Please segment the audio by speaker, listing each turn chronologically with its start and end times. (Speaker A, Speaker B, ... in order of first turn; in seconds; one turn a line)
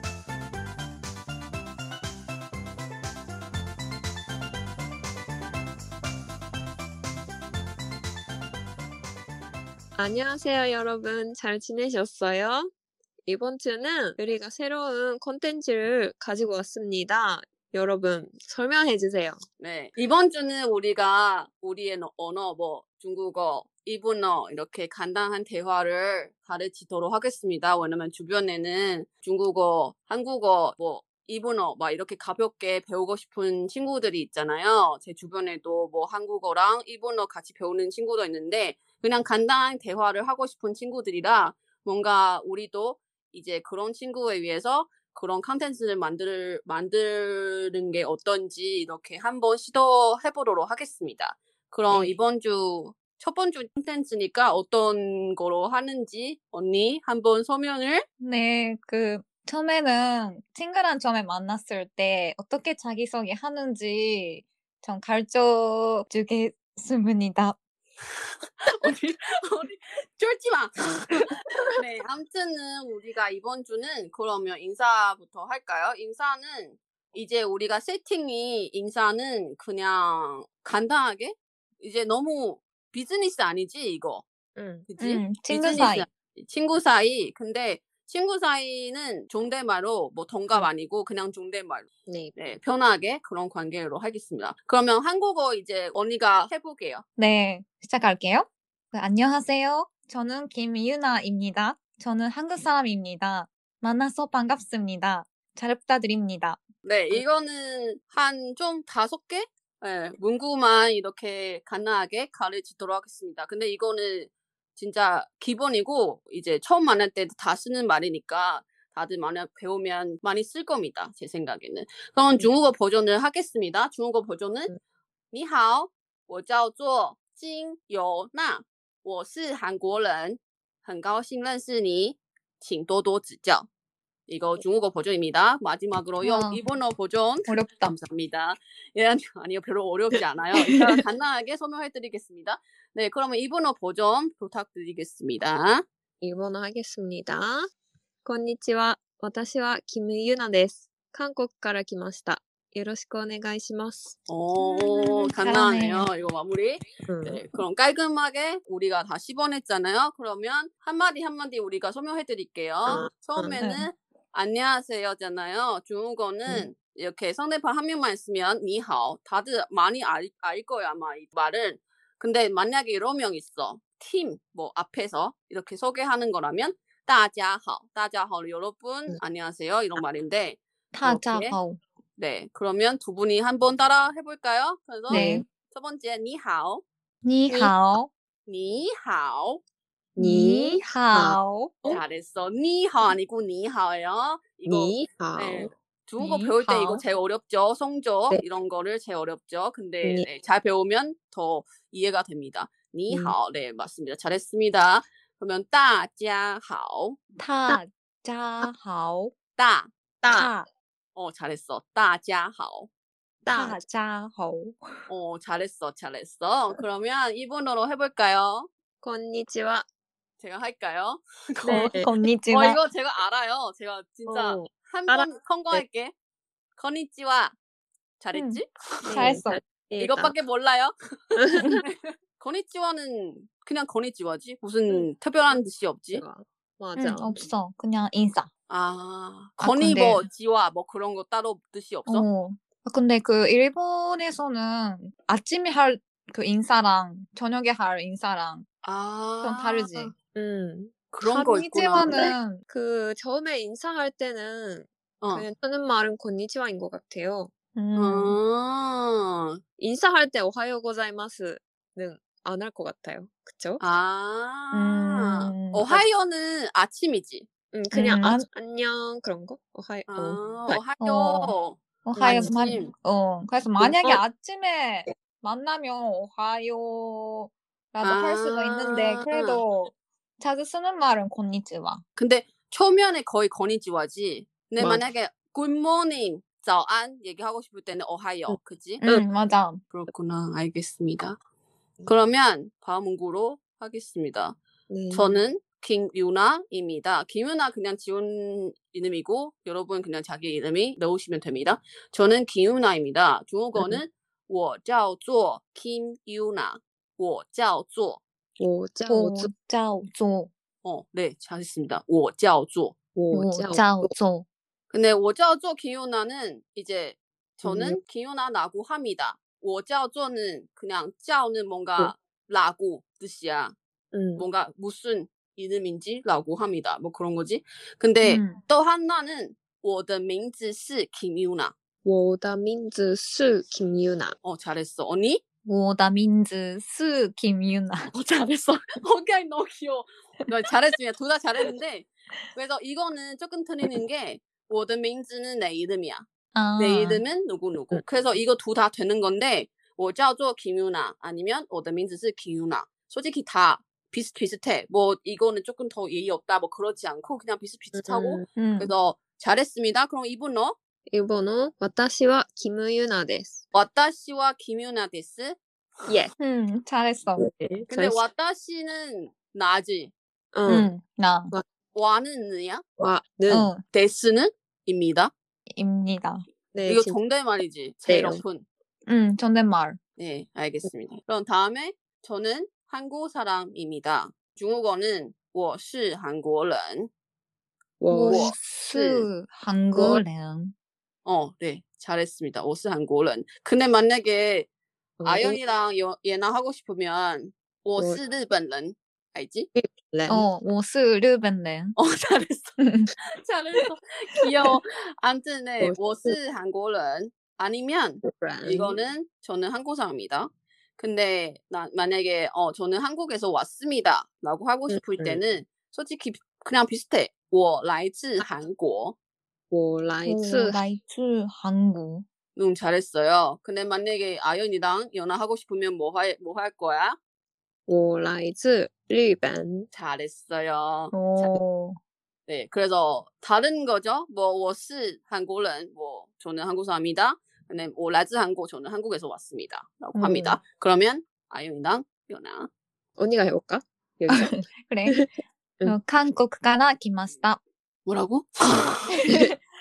Speaker A: 9.9-12.7
Speaker A: 13.3-19.4
Speaker B: 19.6-58.1
Speaker C: 58.2-67.6
Speaker B: 68.7-84.2
Speaker A: 84.6-84.9
Speaker B: 84.9-97.0
Speaker C: 85.0-86.1
Speaker A: 92.1-92.3
Speaker C: 97.2-106.6
Speaker B: 106.8-124.7
Speaker B: 125.3-133.7
Speaker B: 134.3-145.8
Speaker C: 136.2-136.7
Speaker C: 137.4-138.0
Speaker C: 140.6-140.9
Speaker A: 146.2-147.7
Speaker A: 148.2-154.2
Speaker B: 154.3-181.6
Speaker C: 154.6-156.1
Speaker A: 157.1-157.4
Speaker A: 162.9-163.6
Speaker C: 163.6-163.9
Speaker C: 180.9-181.8
Speaker B: 182.2-186.8
Speaker C: 185.1-185.5
Speaker A: 185.1-185.4
Speaker C: 187.2-188.1
Speaker B: 187.5-187.8
Speaker B: 188.5-189.6
Speaker A: 190.2-192.0
Speaker C: 190.2-191.8
Speaker B: 191.9-207.2
Speaker A: 194.7-195.7
Speaker C: 196.2-197.1
Speaker A: 203.1-203.4
Speaker C: 207.4-209.3
Speaker B: 209.6-210.5
Speaker C: 210.3-210.7
Speaker B: 211.2-212.9
Speaker A: 213.4-213.8
Speaker C: 213.5-215.1
Speaker B: 215.1-218.7
Speaker A: 219.0-219.9
Speaker B: 220.4-221.9
Speaker C: 221.7-222.8
Speaker A: 221.7-222.1
Speaker B: 222.5-226.1
Speaker A: 224.3-225.8
Speaker B: 226.8-227.6
Speaker B: 228.2-229.4
Speaker C: 228.3-229.6
Speaker A: 229.1-230.3
Speaker B: 230.0-236.2
Speaker A: 231.4-231.7
Speaker A: 236.1-237.4
Speaker C: 237.0-238.5
Speaker B: 238.7-242.3
Speaker C: 239.6-240.3
Speaker C: 242.1-248.7
Speaker B: 248.8-250.1
Speaker C: 249.4-250.1
Speaker A: 250.3-250.9
Speaker B: 251.1-252.3
Speaker C: 251.2-252.7
Speaker A: 252.0-257.5
Speaker B: 255.2-255.5
Speaker C: 257.8-258.4
Speaker B: 258.0-259.6
Speaker A: 259.8-263.8
Speaker B: 263.8-267.5
Speaker C: 264.7-266.0
Speaker A: 267.7-270.8
Speaker C: 267.9-268.4
Speaker B: 270.1-272.9
Speaker C: 271.0-282.0
Speaker A: 272.1-272.6
Speaker A: 273.8-274.2
Speaker B: 278.0-279.6
Speaker B: 282.2-289.0
Speaker A: 284.8-285.1
Speaker A: 288.5-289.2
Speaker C: 289.0-289.8
Speaker B: 289.9-291.4
Speaker B: 292.1-294.6
Speaker A: 294.9-295.4
Speaker B: 295.1-308.2
Speaker A: 303.8-304.0
Speaker A: 308.6-309.5
Speaker C: 309.1-310.5
Speaker B: 310.8-313.0
Speaker A: 313.1-314.1
Speaker C: 313.3-314.5
Speaker B: 314.9-323.8
Speaker A: 317.6-318.0
Speaker A: 324.1-324.5
Speaker B: 324.4-331.7
Speaker C: 328.2-328.6
Speaker A: 332.0-334.4
Speaker B: 334.4-335.4
Speaker C: 335.6-338.1
Speaker B: 338.1-346.3
Speaker C: 346.6-347.2
Speaker B: 346.8-360.8
Speaker A: 357.9-358.5
Speaker C: 358.6-358.9
Speaker A: 361.1-363.6
Speaker B: 363.7-365.6
Speaker A: 366.1-366.3
Speaker C: 366.4-367.5
Speaker A: 367.4-368.2
Speaker B: 367.9-370.1
Speaker A: 370.5-370.9
Speaker C: 370.7-371.6
Speaker B: 371.9-372.9
Speaker A: 373.0-373.7
Speaker C: 373.5-373.8
Speaker B: 373.9-375.3
Speaker C: 375.7-376.4
Speaker A: 376.7-377.2
Speaker B: 376.9-378.7
Speaker A: 378.1-378.4
Speaker C: 379.1-380.0
Speaker B: 380.2-387.1
Speaker A: 388.0-388.5
Speaker C: 388.1-390.7
Speaker B: 388.2-389.3
Speaker A: 389.9-390.2
Speaker B: 391.2-394.7
Speaker A: 395.2-395.6
Speaker B: 395.2-399.7
Speaker A: 399.8-400.5
Speaker C: 400.3-401.9
Speaker B: 402.0-402.8
Speaker C: 402.8-403.1
Speaker B: 403.4-419.2
Speaker A: 405.8-406.4
Speaker A: 408.2-409.0
Speaker A: 414.9-415.4
Speaker A: 419.7-420.9
Speaker C: 420.2-422.2
Speaker B: 422.6-427.2
Speaker A: 427.9-429.9
Speaker B: 429.9-431.5
Speaker C: 431.1-432.0
Speaker B: 432.5-442.7
Speaker C: 440.1-440.6
Speaker A: 443.2-445.3
Speaker C: 444.3-445.3
Speaker C: 445.8-447.6
Speaker B: 448.1-449.3
Speaker C: 449.2-449.6